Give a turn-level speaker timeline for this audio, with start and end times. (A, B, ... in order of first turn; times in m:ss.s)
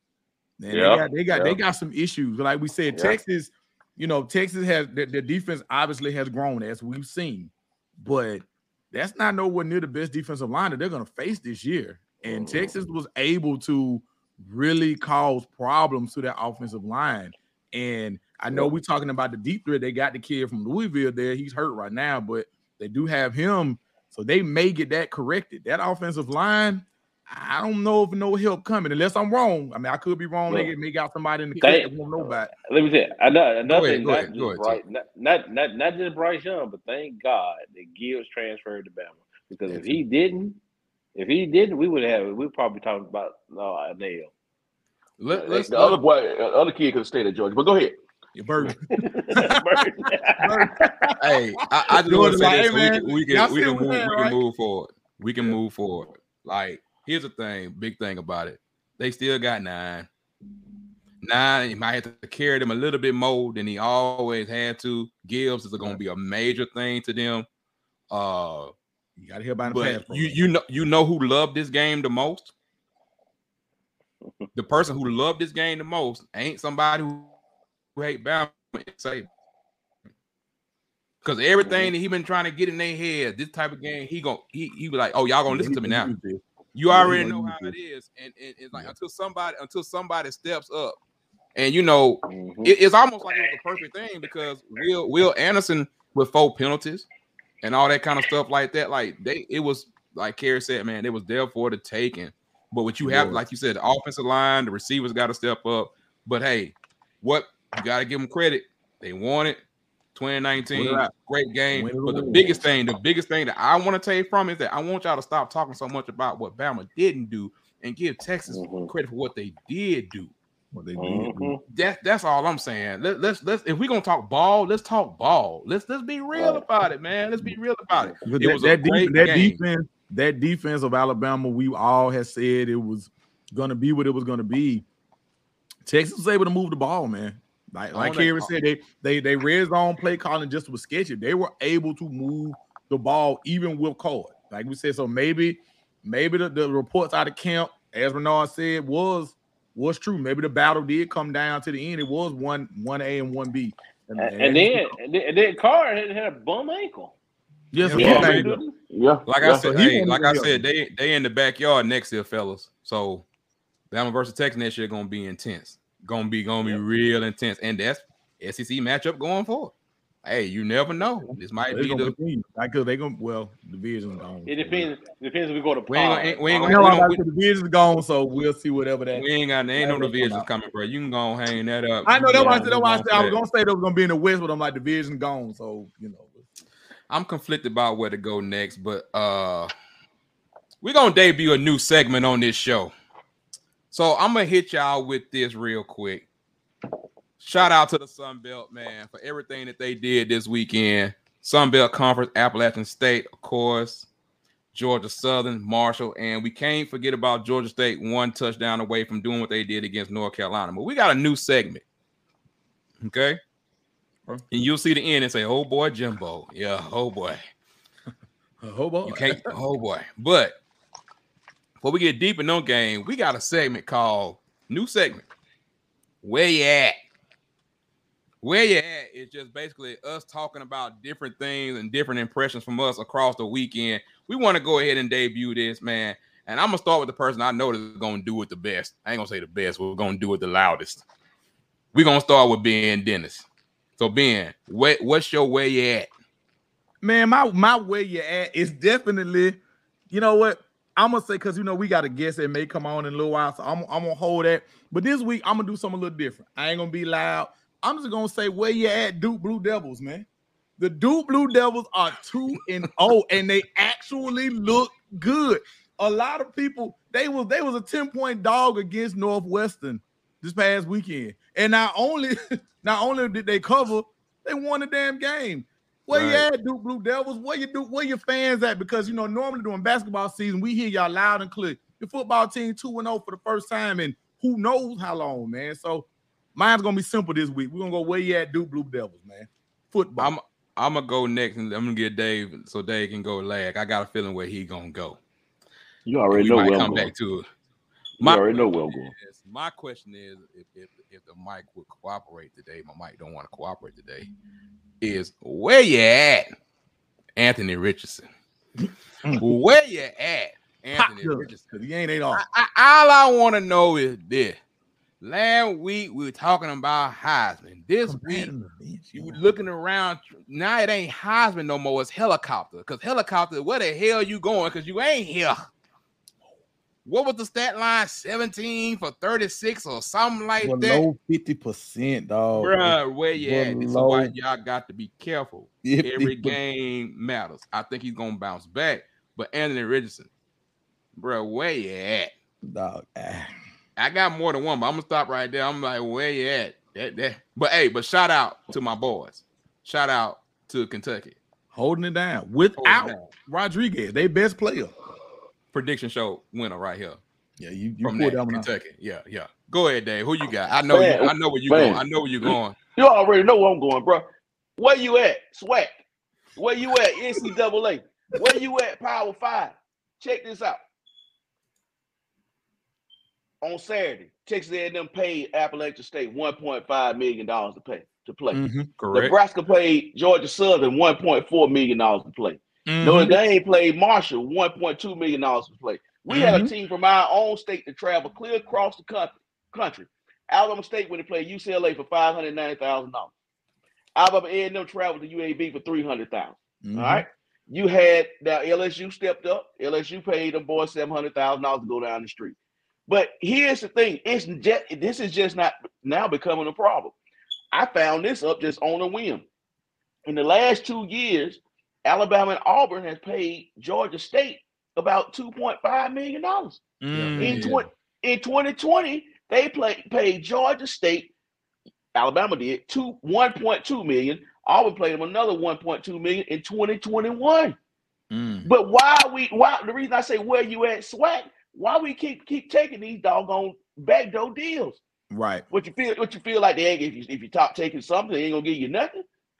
0:00.6-0:32.5 A
0:00.7-0:01.6 B
0:12.2-0:12.7 B
0:31.6-0:40.6 B
0:33.7-0:34.8 C
0:39.7-0:40.0 A
0:41.2-0:44.3 B
0:45.2-0:46.0 C
0:45.3-0:48.0 D
0:48.4-0:49.6 A
0:48.9-0:50.7 B
0:50.4-0:51.4 A
0:51.2-1:00.1 C
0:52.0-0:54.4 A
1:01.2-1:07.5 C
1:08.1-1:08.7 C
1:09.2-1:10.4 A
1:09.7-1:12.5 C
1:14.6-1:17.3 C
1:18.0-1:19.3 C
1:21.2-1:26.1 C
1:25.5-1:27.8 A
1:26.8-1:31.0 C
1:31.6-1:37.1 C
1:32.3-1:32.8 B
1:37.6-1:49.6 C
1:43.0-1:43.4 A
1:50.2-2:00.3 C
1:50.7-1:51.1 A
1:51.7-1:52.6 A
1:58.5-1:58.9 B
2:00.7-2:01.6 A
2:01.0-2:01.6 B
2:01.7-2:09.6 C
2:06.4-2:06.6 B
2:08.2-2:14.8 A
2:15.9-2:34.9 A
2:17.9-2:18.5 C
2:34.2-2:37.2 B
2:37.7-2:38.6 A
2:37.8-2:38.5 C
2:37.9-2:38.7 B
2:37.9-2:39.7 D
2:39.3-2:43.2 C
2:39.4-2:40.6 A
2:43.9-2:49.7 C
2:50.2-2:52.1 C
2:51.7-2:54.9 A
2:54.5-2:57.0 B
2:55.9-2:57.2 C
2:56.7-2:59.2 A
2:59.1-3:03.4 C
2:59.8-3:00.5 A
3:02.1-3:06.5 A
3:02.3-3:02.7 B
3:07.1-3:09.7 C
3:10.8-3:12.9 C
3:13.9-3:16.3 C
3:17.4-3:24.1 C
3:24.7-3:31.8 C
3:33.0-3:33.4 C
3:34.5-3:37.4 C
3:38.6-3:39.5 A
3:39.1-3:40.6 C
3:41.8-3:45.2 C
3:46.2-3:47.0 C
3:48.4-4:01.0 C
4:01.9-4:03.4 C
4:04.0-4:06.1 C
4:07.0-4:09.6 A
4:10.1-4:20.3 A
4:20.8-4:50.3 A
4:36.1-4:36.5 C
4:50.2-4:55.2 C
4:56.1-4:57.1 D
4:56.3-4:57.4 C
4:58.2-4:59.1 D
4:58.2-5:04.3 C
5:05.0-5:06.5 C
5:07.4-5:08.3 C
5:08.8-5:09.5 A
5:09.3-5:11.6 C
5:11.0-5:12.4 A
5:12.3-5:14.6 C
5:15.2-5:18.5 C
5:18.0-5:19.4 A
5:19.2-5:25.6 C
5:27.0-5:31.0 C
5:30.6-5:34.3 A
5:32.6-5:40.3 C
5:35.8-5:36.6 A
5:41.2-5:42.3 C
5:42.6-5:43.5 A
5:44.0-5:51.4 C
5:51.7-5:54.9 A
5:52.8-5:53.3 C
5:55.7-5:57.2 C
5:57.6-5:58.7 A
5:58.0-6:02.8 C
6:00.9-6:06.0 D
6:06.6-6:10.8 D
6:13.6-6:18.6 D
6:18.5-6:18.9 A
6:19.0-6:19.3 C
6:19.1-6:33.3 D
6:22.9-6:23.4 A
6:26.3-6:26.7 A
6:34.2-6:47.2 D
6:36.8-6:37.2 A
6:47.7-6:49.4 D
6:50.2-6:56.8 D
6:57.0-6:57.7 A
6:57.1-6:57.8 C
6:57.4-7:01.3 D
7:02.1-7:07.8 D
7:08.3-7:08.7 A
7:08.6-7:15.0 D
7:15.3-7:15.6 A
7:15.7-7:19.2 D